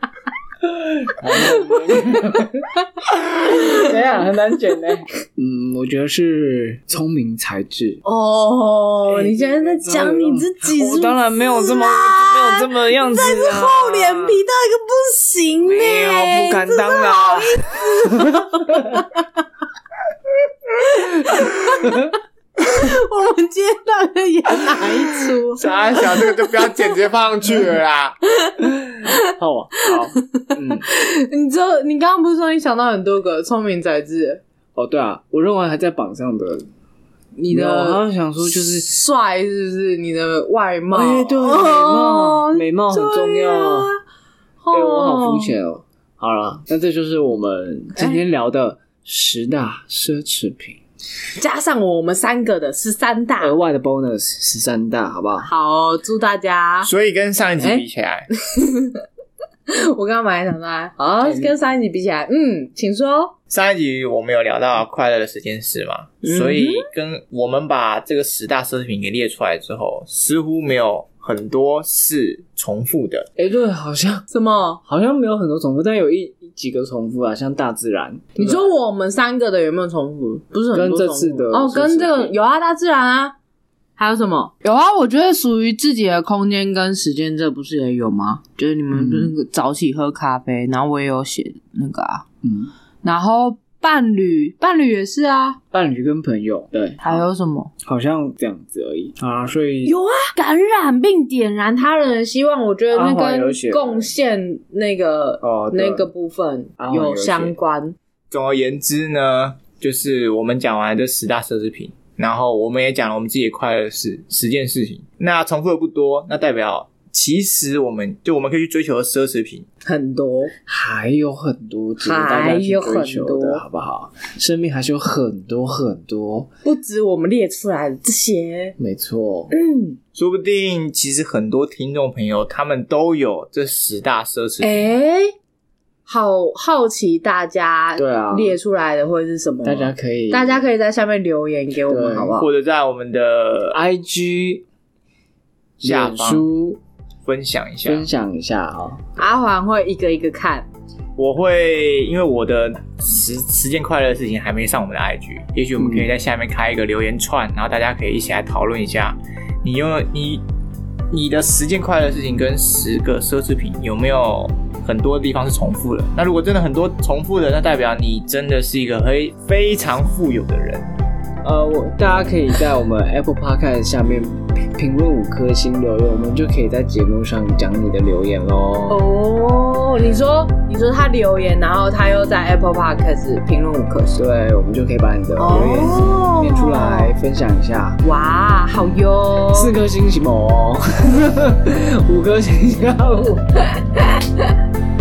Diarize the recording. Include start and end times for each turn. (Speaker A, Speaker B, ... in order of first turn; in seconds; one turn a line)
Speaker A: 1.0-2.6
Speaker B: 1.3-2.4
Speaker A: 3.4-8.0
Speaker B: 3.5-3.9
Speaker B: 8.0-19.2
Speaker A: 9.1-14.4
Speaker A: 15.6-19.0
Speaker B: 20.8-26.9
Speaker A: 21.8-22.1
Speaker C: 25.5-28.1
Speaker B: 28.4-29.3
Speaker A: 29.0-30.9
Speaker B: 29.8-34.4
Speaker A: 34.7-36.6
Speaker B: 37.4-44.0
Speaker A: 37.5-38.9
Speaker A: 40.9-43.9
Speaker B: 44.6-45.5
Speaker A: 44.7-50.8
Speaker B: 48.0-48.2
Speaker B: 51.4-53.5
Speaker A: 53.4-55.5
Speaker B: 55.4-56.9
Speaker C: 56.8-58.3
Speaker B: 58.4-59.0
Speaker B: 59.7-63.3
Speaker A: 61.2-61.5
Speaker C: 63.5-73.3
Speaker B: 66.2-66.9
Speaker A: 73.4-74.2
Speaker B: 74.3-74.8
Speaker A: 74.8-78.7
Speaker B: 78.3-83.3
Speaker A: 80.7-82.4
Speaker B: 84.0-92.2
Speaker A: 88.9-89.3
Speaker A: 92.4-92.7
Speaker B: 93.0-95.6
Speaker A: 95.7-97.2
Speaker B: 97.0-97.7
Speaker A: 97.8-100.0
Speaker B: 99.8-107.9
Speaker A: 102.9-104.1
Speaker A: 105.4-106.1
Speaker A: 106.8-107.6
Speaker C: 108.3-119.7
Speaker B: 119.8-120.5
Speaker A: 120.7-126.5
Speaker B: 122.0-123.6
Speaker B: 126.6-128.8
Speaker A: 128.8-129.5
Speaker B: 129.5-130.0
Speaker C: 130.1-134.8
Speaker B: 134.6-135.3
Speaker B: 136.1-142.5
Speaker A: 138.0-138.6
Speaker A: 139.6-140.6
Speaker A: 141.9-142.3
Speaker C: 142.3-143.8
Speaker A: 143.7-144.6
Speaker A: 145.8-146.8
Speaker C: 145.8-146.5
Speaker C: 147.2-148.1
Speaker A: 147.8-149.0
Speaker B: 149.2-150.7
Speaker C: 151.2-160.4
Speaker A: 155.8-156.1
Speaker C: 161.1-170.9
Speaker A: 171.4-179.0
Speaker B: 178.9-184.2
Speaker A: 184.1-188.0
Speaker B: 185.4-187.1
Speaker B: 188.0-189.8
Speaker A: 189.5-193.5
Speaker B: 193.7-194.5